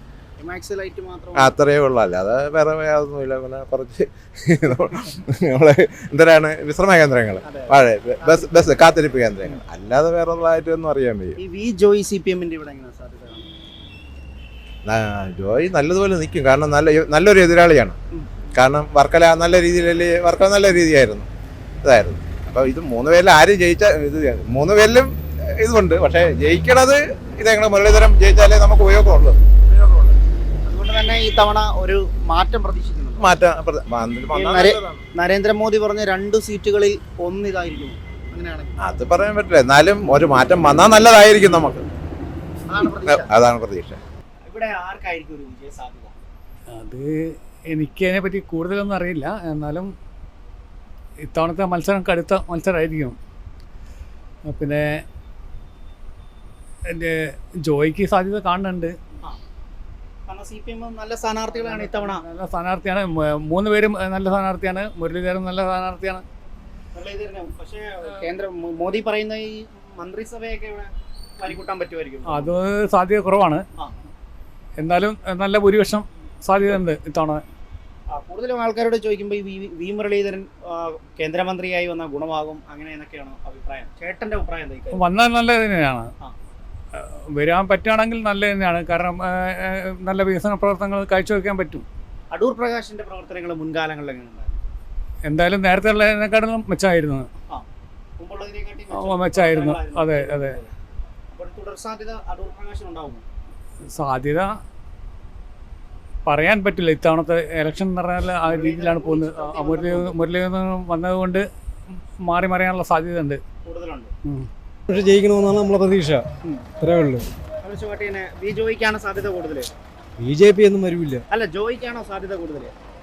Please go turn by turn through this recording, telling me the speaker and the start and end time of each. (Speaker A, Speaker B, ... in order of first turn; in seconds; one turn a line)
Speaker A: 0.4-1.6
Speaker B: 1.4-11.4
Speaker A: 7.4-8.8
Speaker A: 11.4-13.5
Speaker B: 14.9-18.0
Speaker B: 18.5-21.3
Speaker B: 21.8-29.4
Speaker A: 29.7-33.3
Speaker B: 33.2-35.0
Speaker A: 34.3-38.8
Speaker B: 38.8-41.9
Speaker A: 42.7-43.3
Speaker B: 43.0-44.0
Speaker A: 44.5-46.1
Speaker C: 46.7-49.9
Speaker C: 51.3-53.1
Speaker C: 54.5-55.0
Speaker C: 56.9-58.9
Speaker A: 60.3-62.2
Speaker C: 61.6-66.2
Speaker A: 66.9-72.5
Speaker C: 72.3-73.6
Speaker C: 74.8-77.4
Speaker A: 78.1-85.0
Speaker C: 84.9-86.1
Speaker C: 87.3-91.8
Speaker A: 92.3-94.6
Speaker C: 95.2-97.3
Speaker A: 98.2-100.7
Speaker C: 98.9-100.6
Speaker A: 101.3-103.2
Speaker C: 103.9-104.5
Speaker C: 106.2-111.4
Speaker A: 108.5-110.1
Speaker C: 112.2-113.4
Speaker A: 113.6-114.1
Speaker D: 114.9-116.2
Speaker D: 116.8-117.3
Speaker A: 117.6-119.7
Speaker D: 120.2-121.2
Speaker A: 121.3-122.7